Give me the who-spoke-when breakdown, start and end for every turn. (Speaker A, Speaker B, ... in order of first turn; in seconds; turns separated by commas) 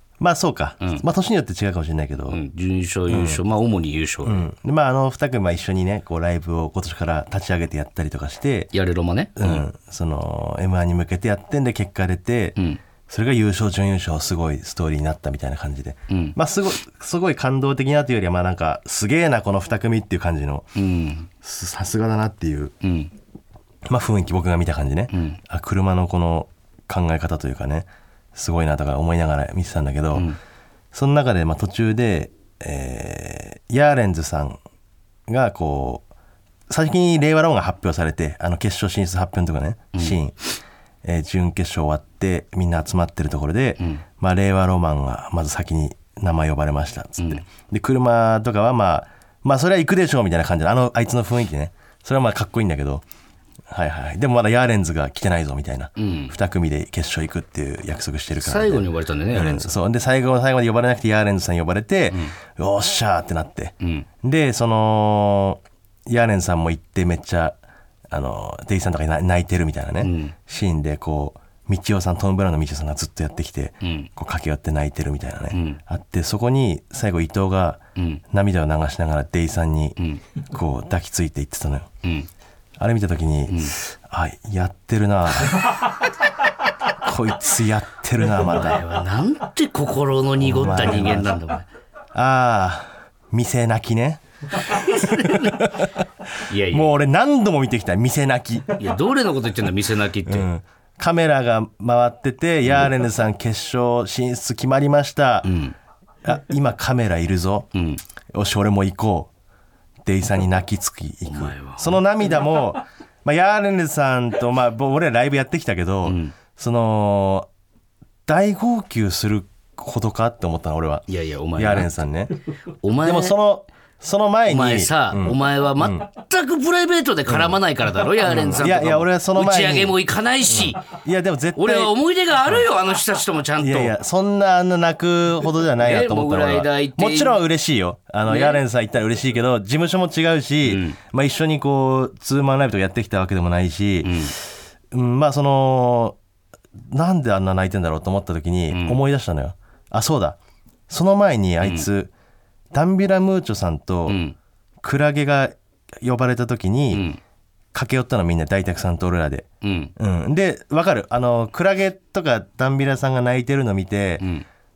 Speaker A: 0.2-2.4, Speaker B: 2.3-4.5, Speaker A: 3.1-3.4, Speaker A: 4.2-8.7, Speaker B: 8.7-9.7, Speaker A: 9.4-12.6, Speaker A: 13.1-20.7, Speaker B: 16.1-16.4, Speaker B: 20.8-21.3, Speaker A: 21.4-22.7, Speaker B: 22.8-23.1, Speaker A: 23.9-30.3, Speaker B: 25.1-25.4, Speaker A: 30.9-34.6, Speaker A: 35.3-36.0, Speaker A: 36.7-40.4, Speaker A: 41.0-53.0, Speaker B: 43.8-44.0, Speaker B: 47.2-47.4, Speaker A: 53.7-67.6, Speaker B: 56.0-56.4, Speaker B: 58.4-59.8, Speaker B: 63.8-64.1, Speaker A: 68.1-80.0, Speaker B: 70.0-70.4, Speaker B: 73.8-74.1, Speaker B: 75.5-75.8, Speaker B: 78.0-78.2, Speaker A: 80.5-81.9, Speaker A: 82.8-85.8, Speaker B: 83.5-83.8, Speaker A: 86.9-88.8, Speaker B: 88.4-91.7, Speaker A: 90.4-91.4, Speaker A: 92.1-94.2, Speaker B: 94.6-95.7, Speaker A: 94.8-95.9, Speaker B: 96.5-96.9, Speaker A: 96.7-98.8, Speaker B: 98.8-100.5, Speaker A: 100.3-105.5, Speaker B: 105.4-105.8, Speaker A: 106.2-107.7, Speaker B: 107.7-108.0, Speaker A: 108.3-109.3, Speaker A: 110.0-117.5, Speaker B: 111.2-112.0, Speaker B: 116.0-116.3, Speaker A: 118.3-121.0, Speaker B: 121.1-122.0, Speaker A: 121.6-122.3, Speaker B: 122.8-123.4, Speaker A: 123.0-126.1, Speaker B: 124.5-130.9, Speaker A: 127.3-127.6, Speaker A: 128.2-130.0, Speaker A: 130.5-132.0, Speaker B: 131.6-134.0, Speaker A: 133.6-146.2, Speaker B: 135.8-137.4, Speaker B: 138.3-138.6, Speaker B: 140.6-141.0, Speaker B: 144.0-144.4, Speaker A: 146.9-150.4, Speaker B: 148.7-149.0, Speaker A: 150.9-152.1, Speaker B: 151.6-151.9, Speaker A: 152.7-154.2, Speaker B: 154.1-154.4, Speaker A: 154.8-157.1, Speaker B: 156.9-157.2, Speaker A: 157.7-164.2, Speaker B: 159.6-159.9, Speaker B: 164.2-164.5